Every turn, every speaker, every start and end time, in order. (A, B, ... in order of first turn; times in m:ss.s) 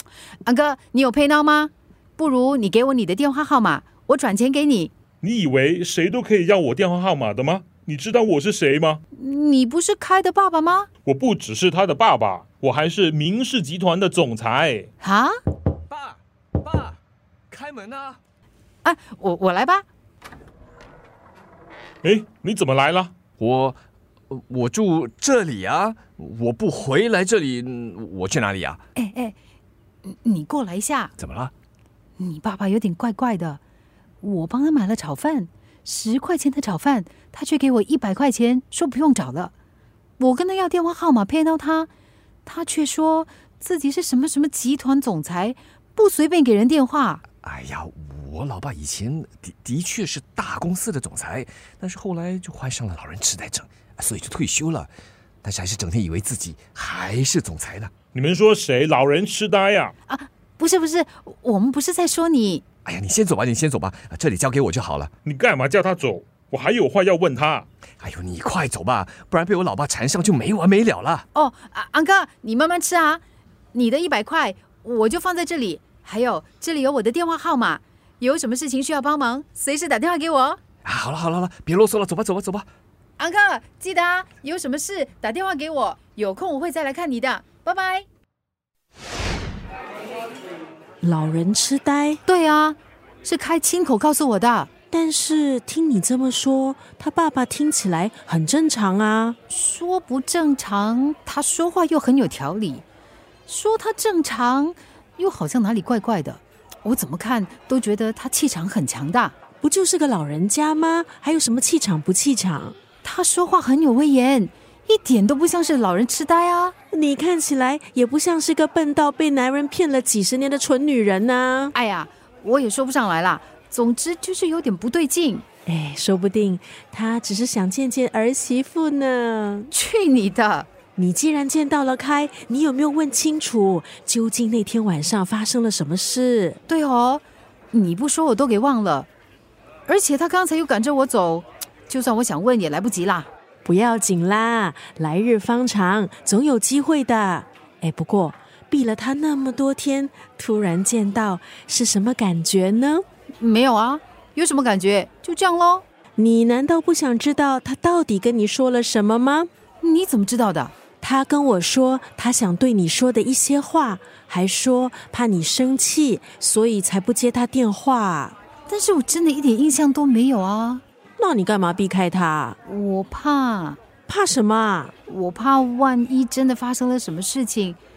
0:00.4-0:04.9 A
0:05.2-0:09.0 B
0:09.1-0:10.9 A
0:11.0-0:14.9 B
0:15.0-0:15.3 A
0:15.9-0:17.0 C
0:17.5-0:18.2 C
0:18.8-0:19.8 A
0:22.0-0:23.1 B
0:23.4-0:28.8 C
0:28.9-0:29.3 A
0:30.0-0:31.1 A
0:31.2-0:31.5 C
0:32.2-0:33.6 A
0:34.2-0:39.5 A
0:40.2-0:41.9 A
0:42.4-0:47.2 A
0:47.4-0:54.9 C
0:55.4-0:57.9 C
0:58.1-0:59.9 B
1:00.1-1:02.6 A
1:02.8-1:05.1 C
1:05.2-1:07.7 B
1:08.0-1:11.2 C
1:11.3-1:13.2 A
1:13.7-1:20.6 A
1:20.8-1:22.7 C
1:23.2-1:28.0 A
1:31.0-1:32.2 D
1:32.2-1:34.7 A
1:34.9-1:39.4 D
1:39.5-1:42.8 A
1:43.5-1:49.3 A
1:49.6-1:52.8 D
1:53.0-1:56.7 A
1:56.9-2:01.7 D
2:01.7-2:05.4 A
2:05.6-2:09.7 D
2:09.7-2:10.7 A
2:11.0-2:16.6 D
2:16.7-2:19.1 A
2:19.8-2:23.3 A
2:23.6-2:33.0 D
2:33.4-2:35.8 A
2:36.2-2:39.5 D
2:39.8-2:40.7 A
2:41.0-2:48.4 D
2:48.7-2:50.8 A
2:51.2-2:52.6 D
2:52.6-2:53.8 A
2:54.1-2:54.9 D
2:55.0-2:57.8 A